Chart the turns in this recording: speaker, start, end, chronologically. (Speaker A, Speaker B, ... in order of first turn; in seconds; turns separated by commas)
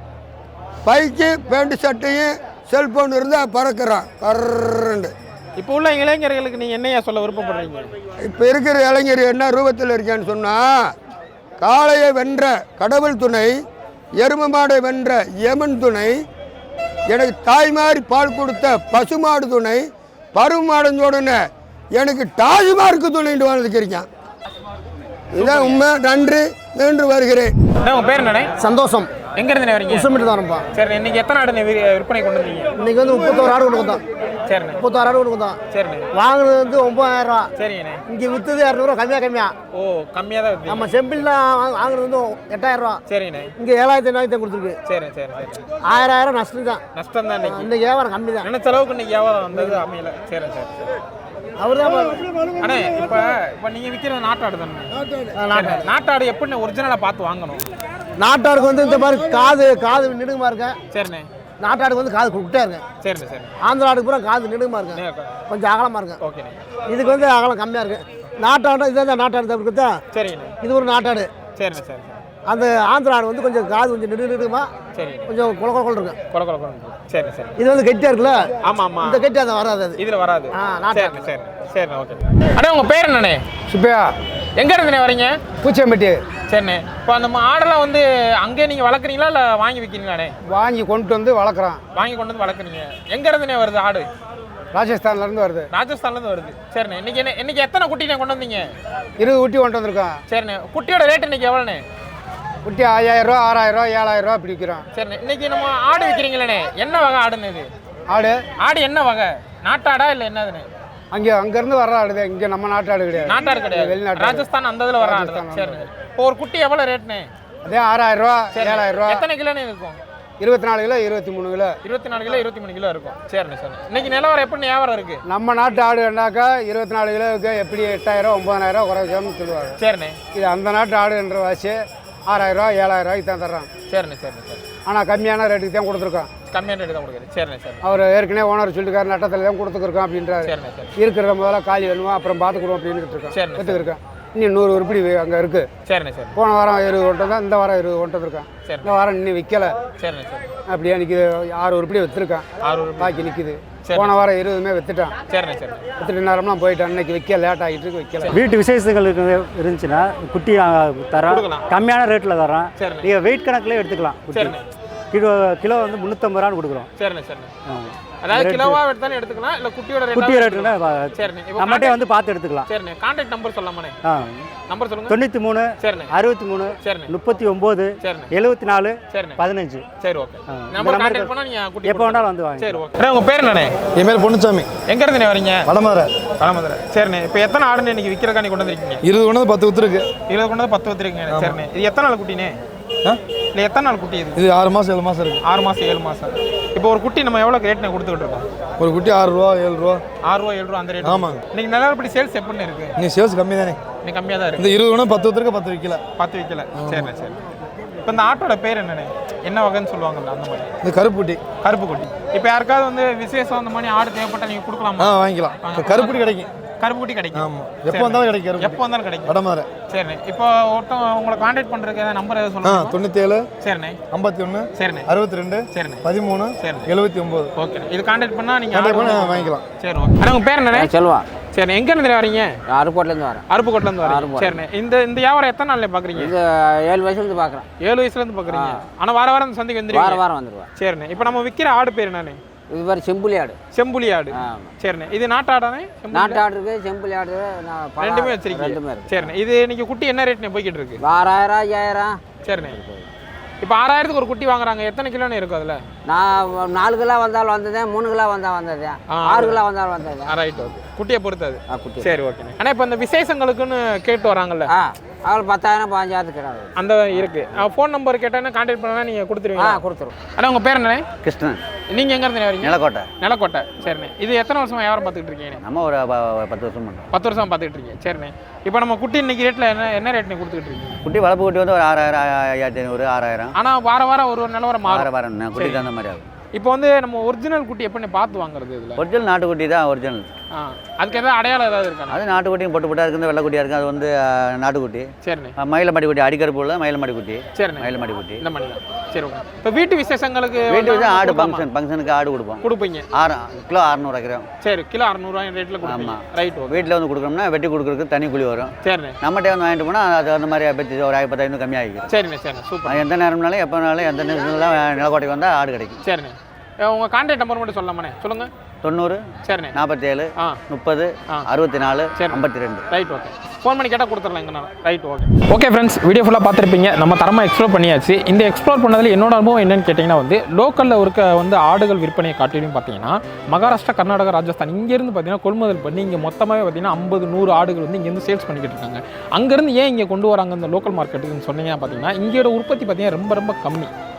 Speaker A: 0.8-5.1, Speaker B: 5.6-7.9, Speaker A: 8.2-10.7, Speaker A: 11.6-13.5, Speaker A: 14.2-16.1, Speaker A: 17.1-19.8, Speaker A: 20.3-21.4, Speaker A: 21.9-24.1, Speaker A: 25.3-27.5, Speaker B: 25.4-25.8, Speaker B: 27.8-28.5, Speaker C: 28.6-29.1, Speaker B: 29.3-30.2, Speaker C: 29.9-30.6, Speaker B: 30.7-32.7, Speaker C: 32.8-34.0, Speaker B: 34.5-34.8, Speaker C: 34.8-35.6, Speaker B: 35.7-36.1, Speaker C: 36.1-37.5, Speaker B: 37.5-38.0, Speaker C: 38.1-39.5, Speaker B: 39.7-40.9, Speaker C: 40.7-43.0, Speaker B: 43.1-43.5, Speaker C: 43.6-44.8, Speaker B: 44.8-45.6, Speaker C: 45.8-46.8, Speaker B: 46.9-47.7, Speaker C: 47.4-48.5, Speaker B: 48.4-50.8, Speaker C: 51.6-52.5, Speaker B: 52.6-55.0, Speaker C: 55.3-55.8, Speaker B: 55.5-57.6, Speaker C: 58.2-60.8, Speaker B: 60.9-61.3, Speaker C: 61.6-62.8, Speaker B: 63.0-63.5, Speaker C: 63.6-66.2, Speaker B: 64.9-65.4, Speaker B: 66.2-66.6, Speaker C: 66.9-70.0, Speaker B: 70.1-70.6, Speaker C: 70.6-71.3, Speaker B: 71.5-72.2, Speaker C: 72.4-74.7, Speaker B: 74.9-75.3, Speaker C: 75.3-76.2, Speaker B: 76.3-77.5, Speaker C: 77.6-80.0, Speaker B: 78.6-79.2, Speaker B: 80.0-83.4, Speaker C: 80.5-81.3, Speaker D: 83.7-84.1, Speaker B: 84.5-85.4, Speaker D: 85.6-86.2, Speaker B: 86.5-90.3, Speaker D: 90.5-91.8, Speaker B: 91.9-94.1, Speaker D: 94.7-95.7, Speaker B: 95.7-98.7, Speaker D: 99.2-100.2, Speaker B: 100.3-101.8, Speaker D: 102.6-104.8, Speaker B: 104.9-107.7, Speaker D: 108.1-108.4, Speaker B: 108.6-110.7, Speaker D: 111.1-114.5, Speaker B: 113.2-117.3, Speaker D: 115.0-115.8, Speaker D: 117.6-119.2, Speaker B: 118.5-120.0, Speaker D: 120.4-121.7, Speaker B: 121.8-125.2, Speaker D: 125.3-129.8, Speaker B: 129.8-130.2, Speaker D: 130.3-133.7, Speaker B: 133.9-134.6, Speaker D: 134.8-136.3, Speaker B: 136.5-137.8, Speaker D: 137.8-145.7, Speaker B: 140.4-140.9, Speaker B: 143.3-143.9, Speaker B: 145.8-146.4, Speaker D: 146.3-149.7, Speaker B: 148.6-148.9, Speaker B: 150.0-150.4, Speaker D: 150.7-152.5, Speaker B: 152.6-153.3, Speaker D: 153.0-155.1, Speaker B: 153.8-154.1, Speaker B: 155.3-155.8, Speaker D: 156.0-158.4, Speaker E: 158.3-164.6, Speaker B: 161.2-161.7, Speaker B: 162.8-163.1, Speaker B: 164.3-164.6, Speaker E: 165.1-166.9, Speaker B: 167.0-167.5, Speaker E: 167.7-168.8, Speaker B: 168.2-172.0, Speaker E: 170.1-172.7, Speaker B: 172.6-174.0, Speaker E: 174.0-174.3, Speaker B: 174.7-175.2, Speaker E: 175.1-179.8, Speaker B: 175.8-176.1, Speaker B: 176.8-177.1, Speaker B: 178.0-178.3, Speaker B: 179.1-179.4, Speaker B: 180.0-183.7, Speaker E: 180.5-181.3, Speaker E: 181.8-182.8, Speaker F: 183.9-184.7, Speaker B: 184.9-185.7, Speaker F: 185.7-186.1, Speaker B: 186.4-189.0, Speaker F: 189.0-190.1, Speaker B: 190.3-192.6, Speaker F: 191.3-191.6, Speaker B: 193.5-194.4, Speaker F: 194.3-195.4, Speaker B: 195.4-198.4, Speaker F: 198.8-200.0, Speaker B: 200.2-202.9, Speaker F: 201.0-201.4, Speaker F: 203.0-203.8, Speaker B: 204.0-204.7, Speaker F: 204.6-206.0, Speaker B: 206.2-207.4, Speaker F: 206.8-207.1, Speaker B: 208.0-210.7, Speaker F: 210.8-211.4, Speaker B: 211.6-219.3, Speaker F: 215.0-216.5, Speaker F: 217.3-219.7, Speaker B: 219.9-223.0, Speaker F: 222.6-223.4, Speaker B: 223.6-224.0, Speaker F: 224.1-227.5, Speaker B: 224.7-225.1, Speaker B: 225.7-226.0, Speaker B: 226.6-226.9, Speaker B: 227.6-230.9, Speaker F: 228.7-229.6, Speaker G: 230.8-231.2, Speaker B: 231.5-232.6, Speaker G: 232.7-233.4, Speaker B: 233.5-236.3, Speaker G: 234.1-234.6, Speaker G: 236.2-237.7, Speaker B: 237.8-240.2, Speaker G: 238.5-238.8, Speaker G: 239.9-240.7, Speaker B: 240.8-242.4, Speaker G: 242.7-243.6, Speaker B: 243.7-246.4, Speaker G: 244.4-244.7, Speaker G: 246.1-249.2, Speaker B: 248.0-251.0, Speaker G: 251.0-253.1, Speaker B: 252.4-252.8, Speaker B: 253.6-255.8, Speaker G: 256.1-260.3, Speaker B: 259.1-259.6, Speaker B: 260.2-264.7, Speaker G: 261.7-262.1, Speaker G: 264.7-266.7, Speaker B: 266.8-271.0, Speaker G: 269.6-270.1, Speaker H: 271.2-271.6, Speaker B: 271.9-275.6, Speaker H: 272.6-273.1, Speaker H: 275.6-277.1, Speaker B: 277.1-281.0, Speaker H: 281.0-283.5, Speaker B: 283.6-285.9, Speaker H: 284.9-286.2, Speaker B: 286.5-289.0, Speaker H: 289.0-290.2, Speaker B: 290.5-292.2, Speaker H: 292.1-298.4, Speaker B: 295.2-295.6, Speaker B: 297.6-301.6, Speaker H: 300.7-302.6, Speaker B: 302.6-303.1, Speaker H: 303.1-304.4, Speaker B: 304.6-306.9, Speaker H: 305.8-312.1, Speaker B: 308.8-309.2, Speaker B: 312.1-313.0, Speaker H: 312.9-316.0, Speaker B: 316.0-318.5, Speaker H: 318.8-319.2, Speaker B: 319.4-319.8, Speaker H: 319.7-322.9, Speaker B: 322.1-343.9